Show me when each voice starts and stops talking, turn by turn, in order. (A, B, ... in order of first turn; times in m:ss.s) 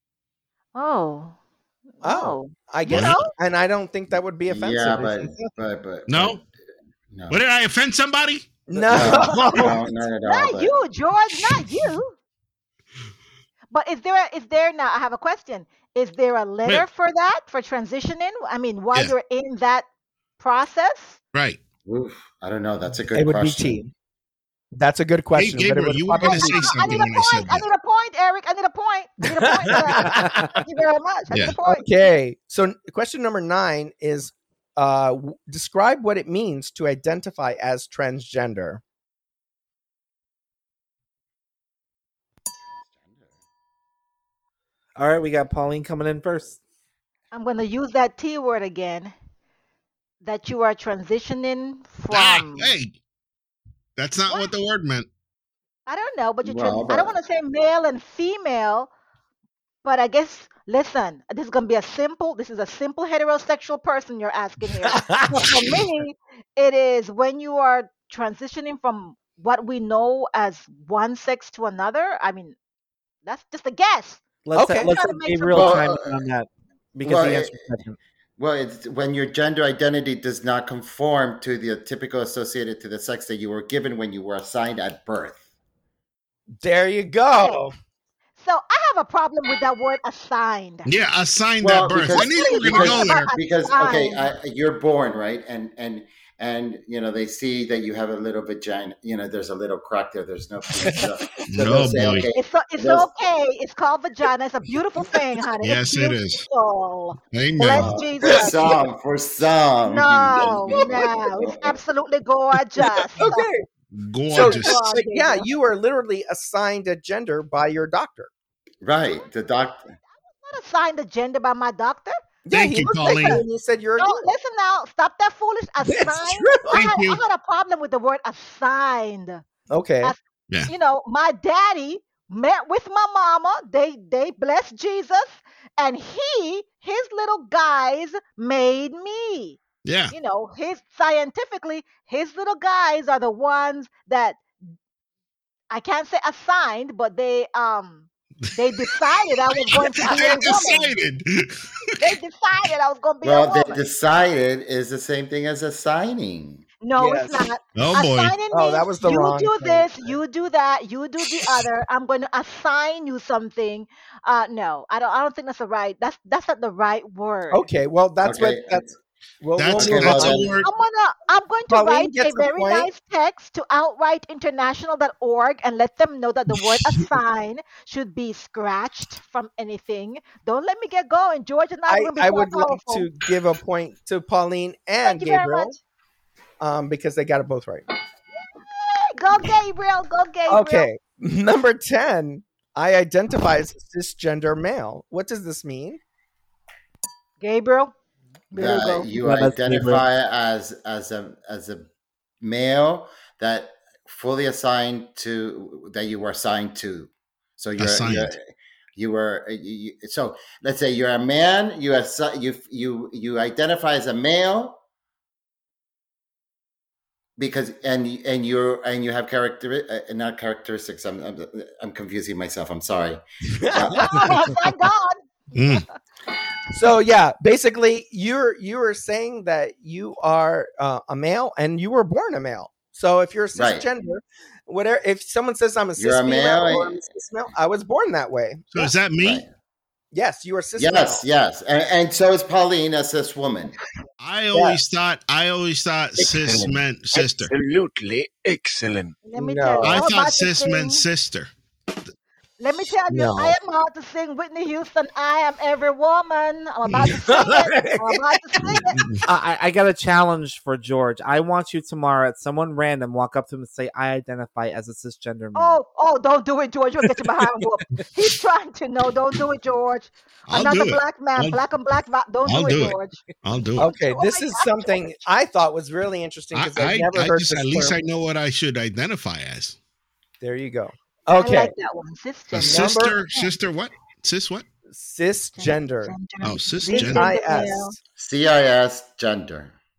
0:00.7-0:01.3 A
0:02.0-0:03.3 A
0:02.0-0:05.5 B
0:02.9-0:03.2 C
0:04.5-0:06.4 D
0:06.1-0:06.4 C
0:07.1-0:07.4 D
0:07.3-0:08.6 C
0:08.7-0:09.8 B
0:08.9-0:10.7 D
0:08.9-0:09.6 A
0:10.2-0:12.2 A
0:13.7-0:19.9 A
0:20.4-0:21.2 A
0:21.3-0:21.6 C
0:21.8-0:23.8 D
0:23.1-0:23.9 B
0:24.7-0:27.0 B
0:25.3-0:27.6 C
0:26.2-0:31.9 A
0:29.5-0:30.4 B
0:31.6-0:38.8 B
0:45.0-0:46.6 E
0:47.3-0:49.1 A
0:50.2-0:52.7 A
0:52.1-0:52.9 C
0:54.0-0:55.1 C
0:55.9-0:58.9 A
0:56.4-0:57.2 D
0:59.8-1:12.6 A
1:04.8-1:05.7 B
1:13.2-1:15.8 A
1:14.4-1:18.0 E
1:14.5-1:14.9 B
1:15.5-1:16.3 D
1:17.0-1:17.7 D
1:18.4-1:25.4 D
1:26.6-1:27.7 B
1:27.3-1:27.6 A
1:28.4-1:30.9 A
1:30.8-1:33.3 C
1:31.6-1:43.1 D
1:32.0-1:34.3 A
1:40.8-1:41.1 B
1:41.5-1:42.3 C
1:42.3-1:48.8 A
1:45.6-1:46.4 C
1:47.3-1:48.0 C
1:47.8-1:51.8 D
1:49.8-1:53.5 A
1:53.1-1:53.7 B
1:53.9-1:54.8 C
1:54.3-1:58.3 B
1:54.3-1:55.5 A
1:58.8-2:00.0 D
2:00.4-2:02.2 A
2:02.4-2:04.3 B
2:02.5-2:03.4 C
2:04.0-2:09.4 A
2:05.8-2:06.8 B
2:06.7-2:07.2 C
2:09.7-2:10.1 B
2:10.0-2:19.6 A
2:19.8-2:20.1 C
2:20.1-2:24.4 A
2:25.7-2:30.9 A
2:29.5-2:32.1 C
2:32.0-2:33.8 A
2:33.2-2:36.6 D
2:36.8-2:47.6 A
2:37.0-2:37.5 B
2:37.8-2:38.4 C
2:38.5-2:40.2 B
2:47.5-2:50.5 B
2:48.2-2:48.9 D
2:49.6-2:50.7 C
2:49.8-2:50.5 D
2:50.6-3:03.1 A
2:51.7-2:52.9 B
3:01.9-3:05.8 B
3:05.0-3:05.8 A
3:06.6-3:07.8 B
3:08.7-3:10.9 A
3:10.5-3:16.0 B
3:17.4-3:17.9 A
3:18.5-3:19.1 A
3:18.5-3:21.9 D
3:19.2-3:20.0 E
3:22.4-3:28.4 D
3:27.8-3:28.4 C
3:29.0-3:34.8 D
3:37.4-3:44.5 D
3:43.5-3:44.2 B
3:43.8-3:45.8 A
3:45.5-3:45.8 C
3:46.7-3:58.9 B
3:53.5-3:53.9 D
3:56.0-3:57.1 D
3:58.7-3:59.4 C
3:59.2-3:59.5 D
4:00.1-4:01.2 B
4:00.8-4:03.7 D
4:04.2-4:07.5 C
4:04.5-4:04.8 B
4:06.2-4:09.1 F
4:09.2-4:11.0 A
4:09.3-4:09.9 B
4:09.8-4:11.5 C
4:12.6-4:19.0 A
4:13.1-4:13.6 B
4:17.3-4:18.2 B
4:18.7-4:19.2 C
4:19.2-4:25.8 E
4:25.5-4:33.2 A
4:30.5-4:31.6 C
4:32.4-4:33.9 C
4:33.8-4:38.0 B
4:34.1-4:35.0 A
4:36.5-4:39.8 C
4:40.4-4:41.7 B
4:41.3-4:43.5 A
4:42.5-4:44.6 C
4:42.6-4:43.1 B
4:44.9-4:46.2 B
4:45.6-4:47.9 A
4:46.4-4:47.3 C
4:46.8-4:48.0 B
4:48.2-4:49.7 D